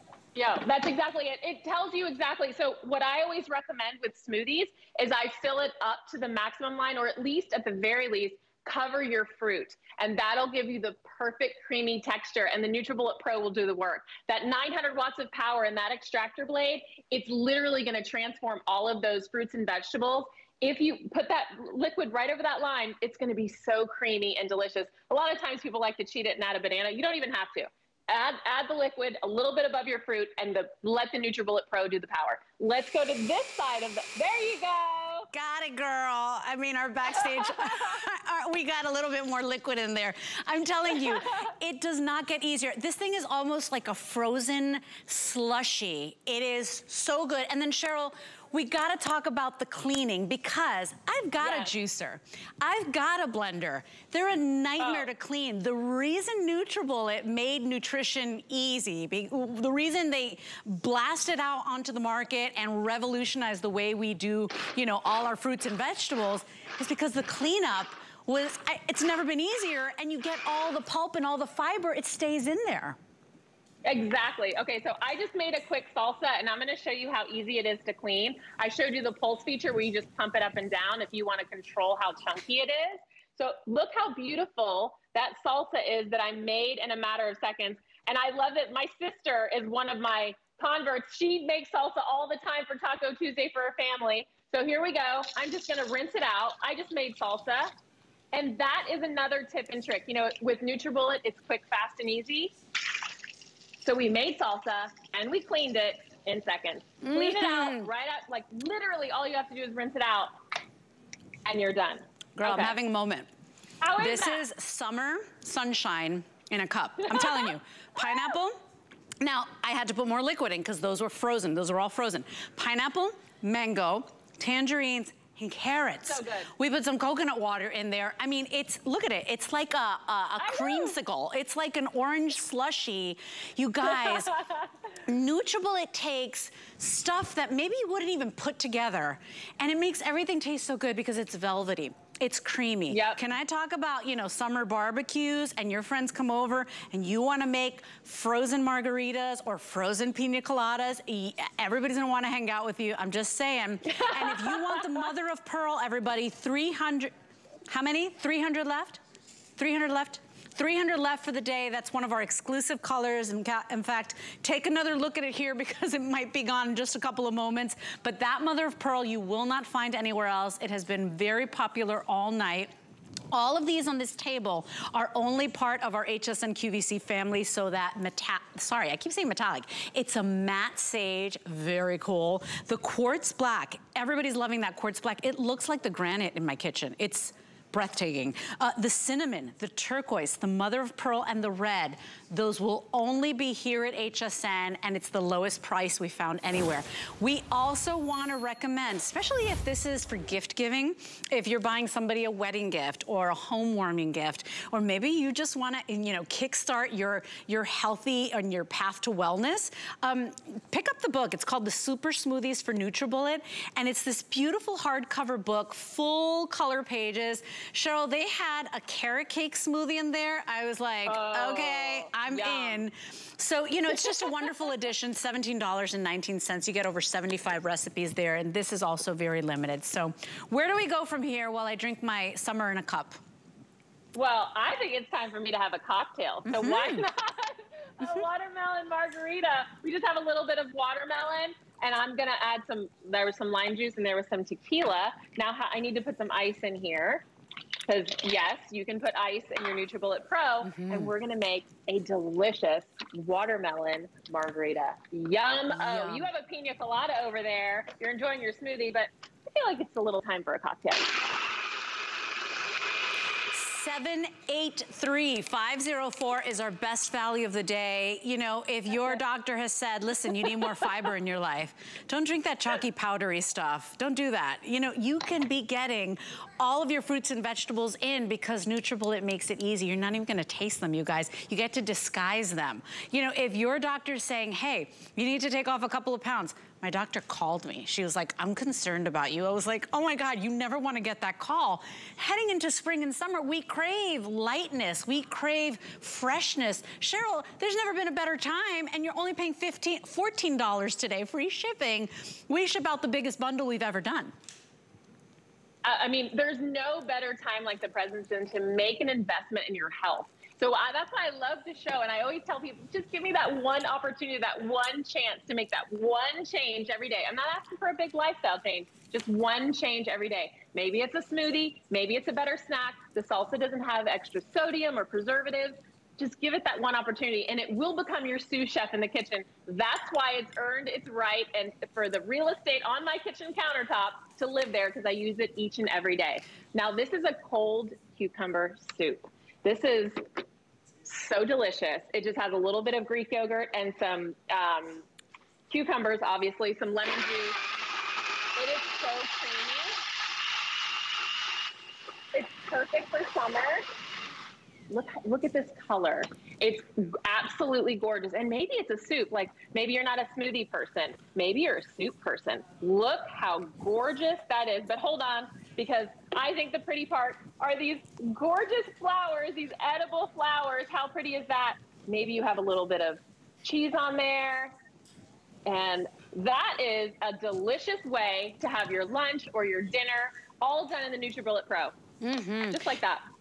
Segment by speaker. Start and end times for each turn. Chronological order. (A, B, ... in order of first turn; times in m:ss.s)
0:00.3-0:35.3 A
0:35.3-1:13.0 B
0:37.3-0:37.9 A
0:51.4-0:51.7 A
0:54.8-0:55.1 A
1:13.8-1:37.7 A
1:38.3-1:42.5 A
1:43.8-1:50.3 A
1:47.0-1:47.9 B
1:51.4-1:52.8 A
1:52.4-1:53.3 B
1:53.8-1:54.4 A
1:54.0-1:58.6 B
1:57.0-1:58.3 A
1:59.2-2:14.3 B
2:06.0-2:06.5 A
2:10.4-2:10.9 A
2:13.9-2:14.6 A
2:15.0-2:37.1 B
2:22.9-2:23.2 A
2:37.7-2:39.0 B
2:39.6-2:52.7 B
2:53.3-3:53.2 B
3:41.0-3:42.8 A
3:44.0-3:44.4 A
3:54.1-4:07.2 A
3:56.4-3:57.1 B
4:07.9-4:21.3 A
4:10.6-4:11.1 B
4:15.7-4:16.3 B
4:23.5-5:04.3 B
5:05.8-5:40.2 A
5:41.0-5:45.0 A
5:45.7-5:47.6 A
5:48.6-5:50.0 A
5:52.3-5:53.9 A
5:54.9-6:14.7 A
6:15.6-6:21.9 A
6:22.2-6:22.8 B
6:22.6-6:23.2 A